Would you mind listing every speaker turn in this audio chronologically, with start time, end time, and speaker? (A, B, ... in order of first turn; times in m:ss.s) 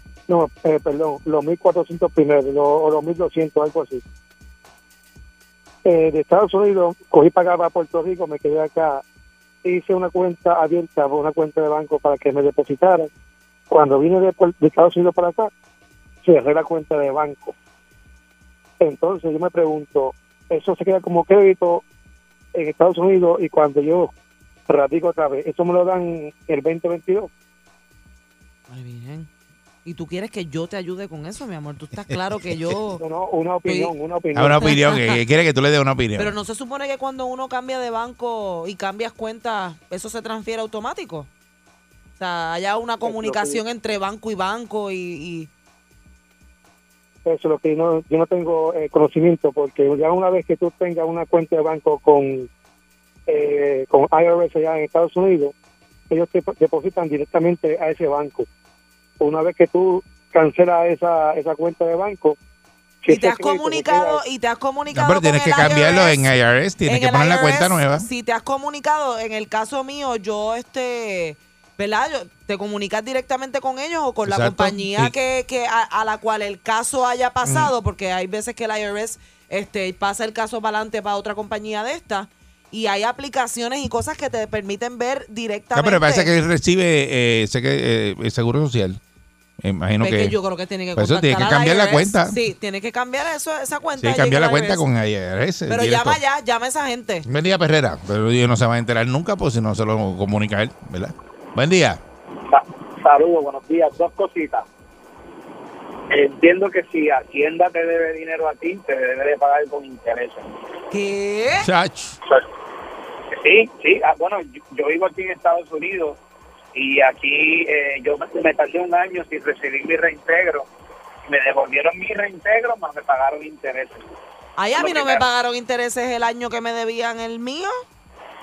0:00.3-0:04.0 A
0:05.8-0:09.0 A
0:09.6-0:13.1 A
0:13.7-0:15.5 A
0:16.2-0:17.6 A
0:18.8-0:21.8 A
0:22.6-0:24.1 A
0:24.7-0:27.3 A
0:28.7-0:29.3 B
0:29.8-0:33.0 B
0:33.0-0:34.7 A
0:33.6-0:33.9 B
0:34.3-0:36.3 C
0:34.6-0:35.2 B
0:36.2-0:41.3 B
0:42.2-0:45.5 B
0:43.0-0:43.6 A
0:47.2-0:52.5 A
0:53.3-0:55.5 A
0:56.1-0:58.5 A
0:59.2-1:02.4 A
1:03.0-1:04.2 A
1:03.1-1:06.3 B
1:04.9-1:08.1 C
1:06.9-1:26.3 B
1:14.2-1:15.1 C
1:17.4-1:17.7 C
1:25.8-1:29.0 C
1:29.6-1:30.4 C
1:30.0-1:34.8 B
1:31.0-1:32.4 C
1:34.0-1:36.2 C
1:35.7-1:37.3 B
1:37.3-1:42.0 C
1:42.5-1:44.7 D
1:46.1-1:50.5 D
1:50.9-1:51.7 B
1:51.6-1:52.2 C
1:53.3-1:56.2 D
1:56.8-2:00.7 D
2:01.3-2:04.0 D
2:04.6-2:07.7 B
2:04.8-2:05.3 D